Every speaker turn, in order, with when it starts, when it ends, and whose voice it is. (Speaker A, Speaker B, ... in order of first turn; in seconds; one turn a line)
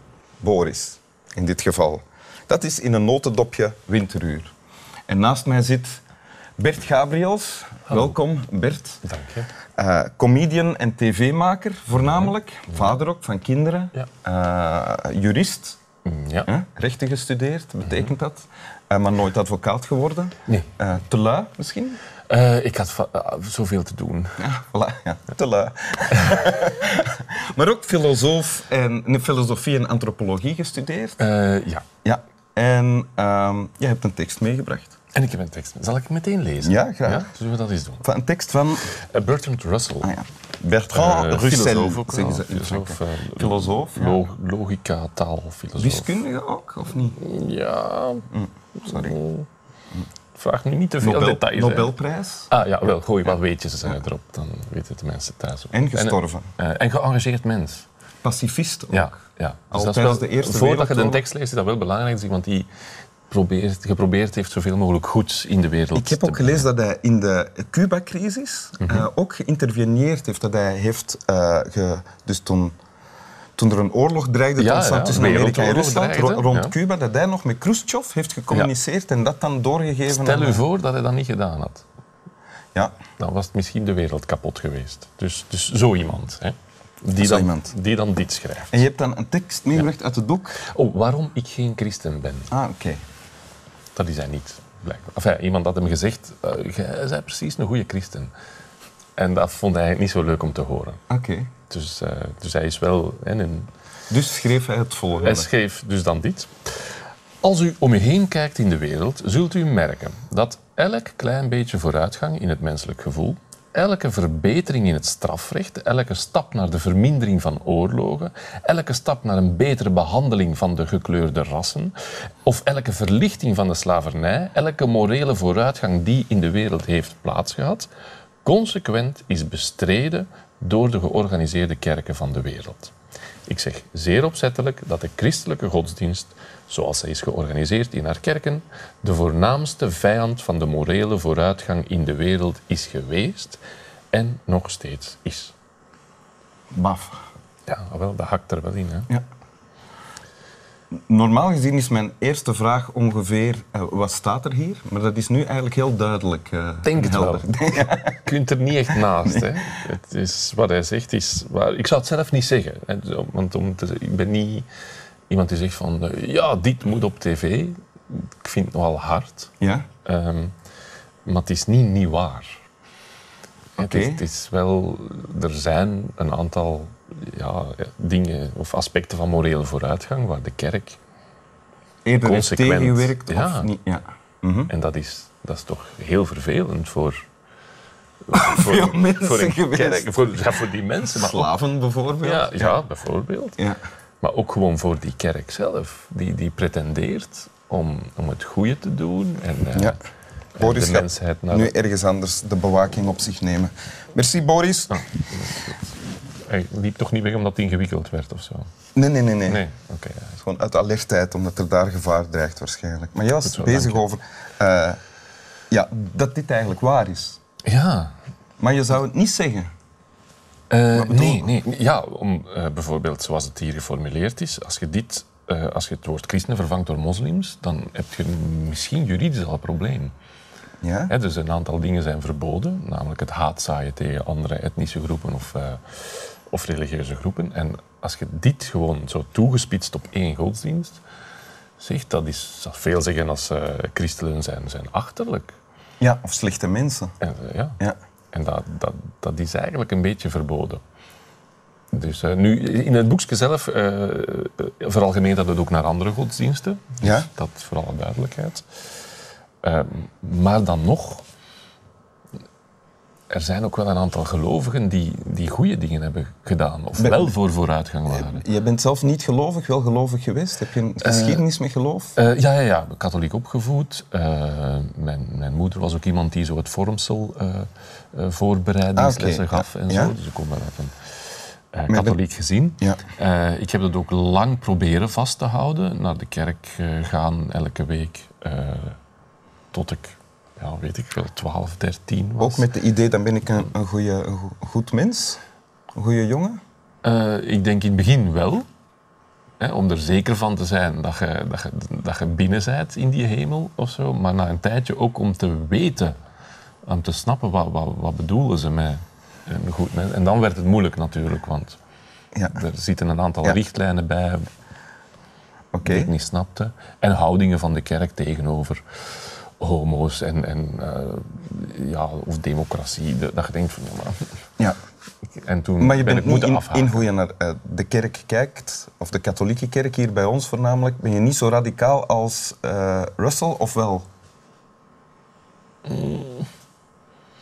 Speaker A: 0.4-4.5
Speaker A: 5.1-6.0
Speaker A: 6.6-9.0
Speaker B: 7.9-8.1
Speaker B: 9.0-9.5
Speaker A: 9.8-15.8
Speaker B: 12.0-12.9
Speaker B: 16.1-16.5
Speaker A: 16.5-22.0
Speaker B: 17.9-18.1
Speaker B: 22.3-24.4
Speaker A: 24.4-31.2
Speaker B: 31.2-31.9
Speaker A: 32.0-35.0
Speaker B: 35.1-38.0
Speaker A: 36.6-37.3
Speaker A: 38.0-38.9
Speaker B: 39.0-40.1
Speaker A: 40.0-44.2
Speaker B: 40.9-46.2
Speaker A: 45.8-47.2
Speaker B: 47.0-49.5
Speaker A: 48.3-49.2
Speaker B: 50.4-51.9
Speaker A: 51.0-52.5
Speaker B: 52.5-57.9
Speaker A: 55.7-56.5
Speaker A: 58.2-59.2
Speaker B: 58.9-62.7
Speaker A: 59.7-61.2
Speaker B: 63.3-66.7
Speaker A: 66.0-72.8
Speaker B: 68.8-69.1
Speaker A: 73.6-80.6
Speaker B: 74.6-76.8
Speaker B: 80.1-81.8
Speaker B: 83.1-88.8
Speaker A: 87.2-87.7
Speaker A: 88.7-90.6
Speaker B: 90.6-92.5
Speaker A: 92.5-93.0
Speaker B: 94.0-98.3
Speaker B: 99.2-101.0
Speaker A: 101.1-101.5
Speaker B: 101.7-103.7
Speaker A: 104.1-105.5
Speaker B: 105.2-121.9
Speaker B: 122.5-127.9
Speaker B: 128.4-132.9
Speaker B: 133.5-143.6
Speaker B: 144.1-145.5
Speaker A: 146.7-147.2
Speaker B: 147.7-149.1
Speaker A: 151.1-158.2
Speaker B: 156.8-164.7
Speaker A: 159.2-159.5
Speaker B: 165.3-169.5
Speaker A: 169.6-169.9
Speaker B: 170.1-170.5
Speaker B: 171.2-172.6
Speaker B: 173.8-181.0
Speaker A: 173.8-174.2
Speaker A: 182.1-184.7
Speaker B: 182.2-183.7
Speaker B: 184.7-187.2
Speaker B: 188.3-191.5
Speaker A: 188.3-190.4
Speaker A: 191.1-192.8
Speaker B: 192.2-193.6
Speaker B: 194.2-200.0
Speaker B: 200.6-201.7
Speaker A: 200.6-205.1
Speaker B: 204.9-205.8
Speaker B: 206.5-208.7
Speaker A: 209.0-209.6
Speaker B: 209.5-210.4
Speaker A: 210.4-215.0
Speaker B: 213.4-214.0
Speaker A: 215.7-217.4
Speaker B: 217.7-218.2
Speaker A: 218.6-219.7
Speaker B: 220.7-230.1
Speaker A: 220.9-221.6
Speaker A: 230.8-231.1
Speaker B: 231.1-241.0
Speaker B: 241.8-245.6
Speaker A: 246.0-247.1
Speaker B: 247.2-247.8
Speaker B: 248.3-250.8
Speaker B: 251.9-258.7
Speaker A: 257.0-257.3
Speaker B: 259.6-261.2
Speaker B: 263.3-268.4
Speaker A: 267.0-267.3
Speaker A: 268.1-272.1
Speaker B: 271.0-271.4
Speaker B: 272.2-280.9
Speaker A: 279.0-280.1
Speaker B: 281.7-289.0
Speaker A: 281.9-282.2
Speaker B: 289.7-292.7
Speaker A: 292.4-295.4
Speaker A: 295.9-296.6
Speaker B: 297.0-298.7
Speaker B: 299.6-306.1
Speaker B: 306.9-311.8
Speaker A: 312.3-312.6
Speaker B: 312.5-314.4
Speaker A: 315.7-316.1
Speaker B: 315.9-318.8
Speaker B: 319.6-324.2
Speaker B: 325.4-327.1
Speaker A: 325.8-334.1
Speaker B: 335.9-336.5